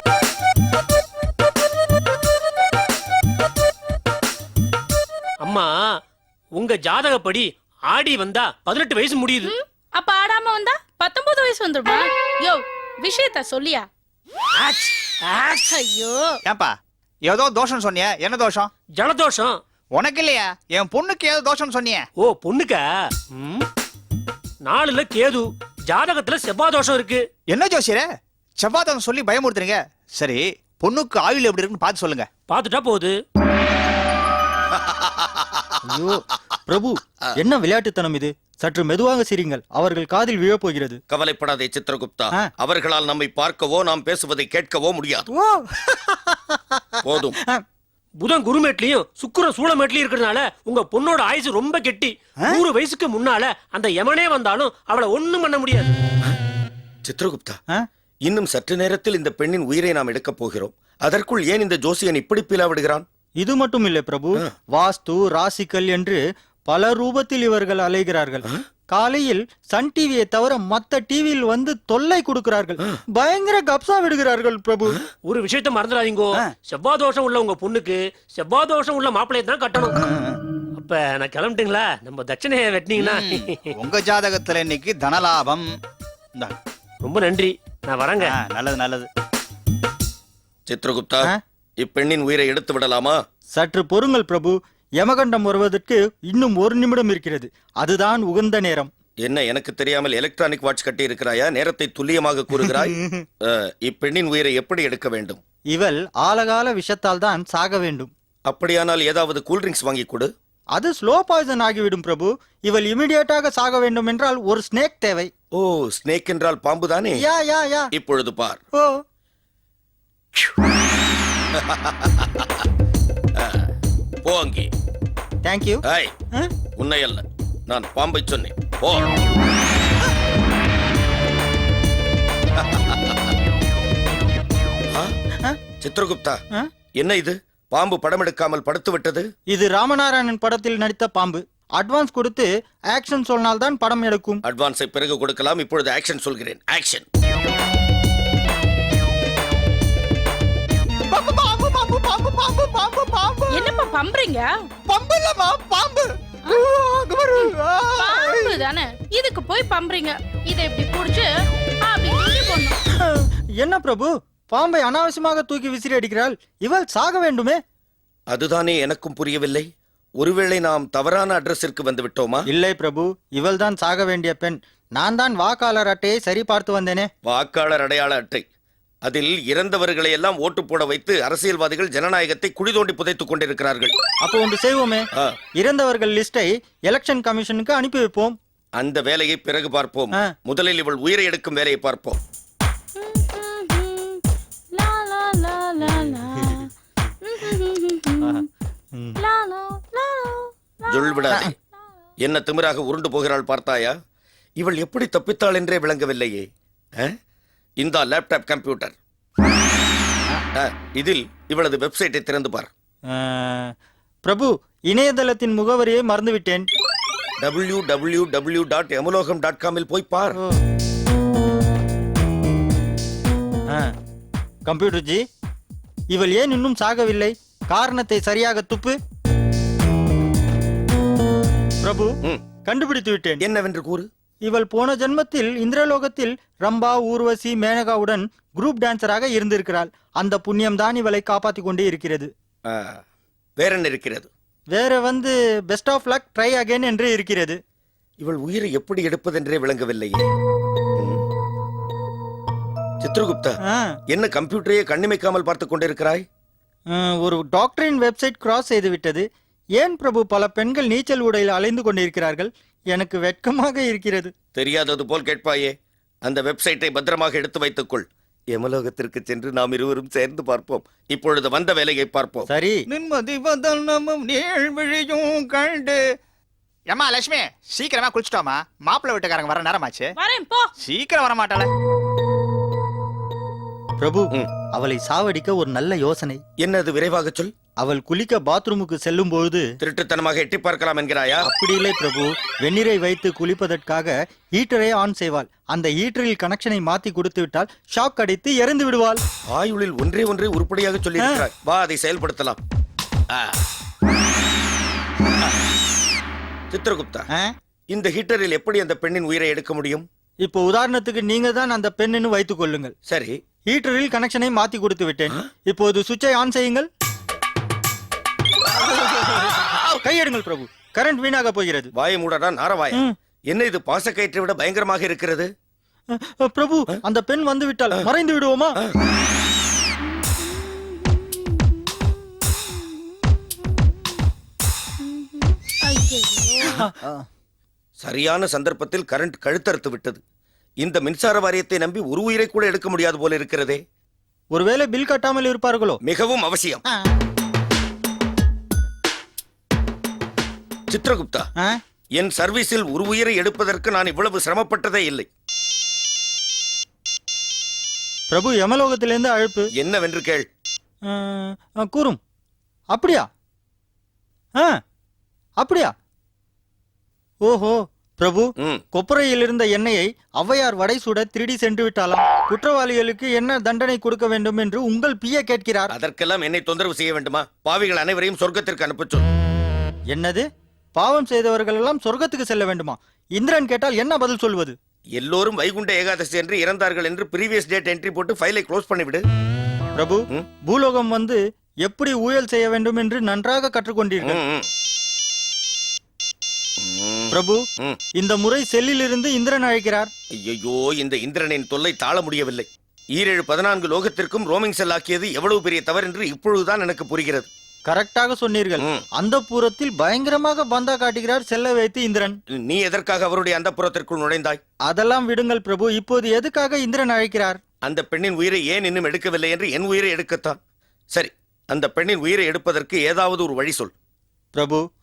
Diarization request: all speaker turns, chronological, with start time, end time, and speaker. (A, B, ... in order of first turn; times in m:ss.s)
0:05.4-0:05.7 A
0:06.5-0:09.5 A
0:09.4-0:13.9 B
0:14.6-0:15.7 A
0:15.7-0:16.4 B
0:16.4-0:16.7 C
0:17.2-0:18.7 C
0:19.0-0:19.6 A
0:19.9-0:22.0 C
0:22.2-0:23.6 A
0:24.6-0:27.2 A
0:27.5-0:28.0 C
0:28.6-0:32.3 C
0:32.5-0:33.1 A
0:34.7-0:35.8 D
0:35.8-0:41.0 E
0:41.1-0:45.3 D
0:45.3-0:47.6 E
0:47.0-0:47.4 D
0:48.2-0:55.9 A
0:57.0-0:57.6 D
0:58.2-1:03.0 D
1:03.4-1:15.0 E
1:15.2-1:20.0 A
1:20.0-1:20.4 C
1:20.8-1:23.6 A
1:23.0-1:25.8 C
1:27.0-1:28.3 A
1:28.2-1:29.1 C
1:30.7-1:33.2 D
1:33.5-1:38.9 E
1:39.2-1:45.4 D
1:42.8-1:43.2 E
1:45.7-1:48.1 E
1:48.5-1:50.3 D
1:50.7-1:55.3 E
1:55.5-1:57.2 D
1:57.2-1:57.9 E
1:57.9-1:58.6 D
2:01.5-2:02.6 D
2:03.4-2:03.7 D
2:04.2-2:04.7 D
2:05.4-2:05.8 E
2:05.9-2:06.1 D
2:06.8-2:09.1 D
2:12.6-2:13.3 D
2:15.8-2:16.4 D
2:17.0-2:19.3 D
2:19.5-2:24.4 E
2:24.4-2:27.0 D
2:31.1-2:33.6 C
2:33.5-2:34.5 B
2:34.9-2:38.6 C
2:37.4-2:41.3 B
2:41.8-2:42.8 B
2:43.0-2:47.6 E
2:48.3-2:52.5 D
2:52.4-2:57.1 E
2:57.2-2:58.4 D
2:59.0-3:03.9 D
3:04.2-3:05.1 E
3:05.6-3:08.4 E
3:08.8-3:12.2 D
3:13.0-3:16.7 B
3:16.4-3:16.6 E
3:17.2-3:18.5 B
3:19.2-3:21.4 B
3:20.9-3:21.5 D
3:22.2-3:23.9 D
3:24.6-3:27.1 D
3:27.8-3:29.0 D
3:30.5-3:32.7 D
3:33.1-3:33.7 E
3:34.2-3:36.7 E
3:37.4-3:40.4 D
3:44.6-3:45.2 E
3:46.1-3:49.0 E
3:51.8-3:53.4 E
3:53.4-3:54.1 D
3:54.4-4:02.3 E
4:02.7-4:03.0 D
4:03.6-4:04.3 D
4:04.7-4:07.6 E
4:08.2-4:10.3 D
4:11.0-4:11.2 D
4:13.0-4:13.6 D
4:13.7-4:14.0 E
4:14.1-4:16.2 D
4:16.9-4:19.2 E
4:19.8-4:24.3 E
4:24.5-4:25.7 D
4:26.2-4:32.5 D
4:32.5-4:32.8 E
4:32.9-4:36.0 C
4:36.9-4:40.1 C
4:40.2-4:40.7 B
4:40.8-4:41.7 C
4:44.0-4:46.4 E
4:46.6-4:47.5 D
4:47.8-4:49.7 E
4:49.8-4:51.5 D
4:51.4-4:59.2 E
4:59.5-5:02.6 D
5:01.2-5:01.4 E
5:03.3-5:03.6 D
5:06.7-5:07.3 D
5:07.9-5:10.0 D
5:10.4-5:12.9 E
5:13.1-5:13.4 D
5:13.7-5:16.9 E
5:18.7-5:20.0 D
5:20.0-5:21.9 E
5:22.0-5:25.5 D
5:26.1-5:28.8 E
5:30.2-5:33.4 B
5:35.0-5:36.8 B
5:36.6-5:37.2 E
5:38.0-5:40.2 D
5:40.8-5:43.8 D
5:44.5-5:46.0 E
5:46.0-5:46.8 D
5:50.9-5:51.5 D
5:52.1-5:55.3 D
5:58.3-5:59.7 E
5:59.8-6:00.5 D
6:01.1-6:02.2 E
6:02.9-6:03.3 E
6:05.6-6:05.9 E
6:07.4-6:15.9 E
6:15.9-6:19.3 D
6:20.1-6:24.8 E
6:25.2-6:29.2 D
6:30.0-6:34.4 E
6:34.2-6:34.7 D
6:36.8-6:38.0 D
6:37.3-6:37.6 E
6:38.1-6:40.1 E
6:40.3-6:47.5 D
6:47.9-6:52.4 E
6:48.8-6:49.0 D
6:52.5-6:54.6 D
6:54.9-6:57.6 E
6:57.8-7:00.6 D
7:01.1-7:03.9 D
7:04.5-7:04.8 E